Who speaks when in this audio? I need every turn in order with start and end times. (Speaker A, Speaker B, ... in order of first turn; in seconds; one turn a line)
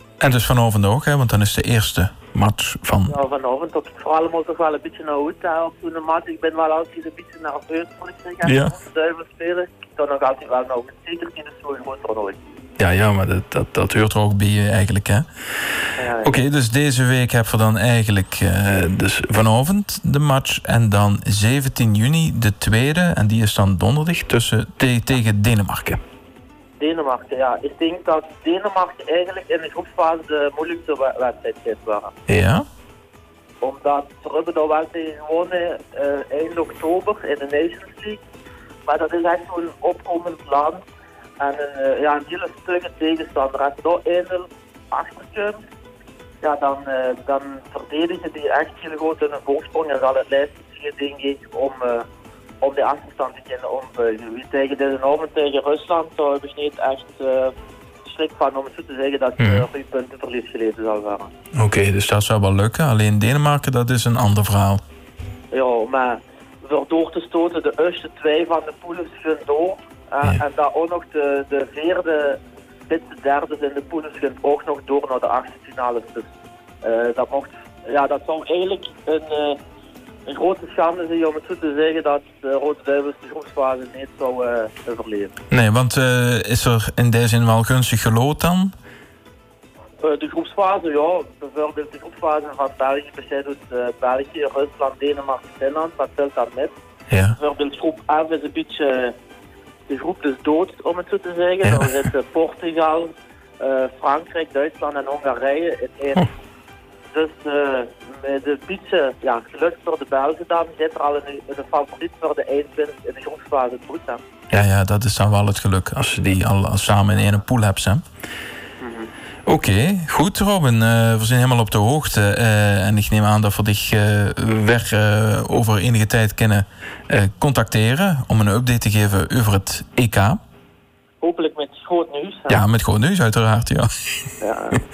Speaker A: 0.2-3.2
Speaker B: 3.1-12.5
Speaker A: 8.4-8.7
Speaker A: 12.8-15.3
Speaker B: 16.0-16.3
Speaker A: 16.2-26.0
Speaker B: 26.8-32.1
Speaker A: 32.3-32.6
Speaker B: 33.6-38.2
Speaker B: 38.9-40.8
Speaker B: 41.4-45.6
Speaker B: 46.4-52.0
Speaker B: 52.6-57.5
Speaker B: 58.0-61.3
Speaker A: 59.4-59.7
Speaker A: 61.5-64.8
Speaker B: 65.5-76.3
Speaker B: 76.8-79.6
Speaker B: 80.3-85.3
Speaker A: 85.5-88.7
Speaker B: 90.0-96.7
Speaker A: 97.1-97.4
Speaker B: 97.3-99.2
Speaker B: 99.9-106.3
Speaker A: 101.6-101.9
Speaker B: 107.1-114.2
Speaker A: 114.5-118.0
Speaker B: 118.8-119.1
Speaker A: 119.5-130.4
Speaker B: 131.2-132.6
Speaker A: 132.5-134.3
Speaker B: 134.4-134.8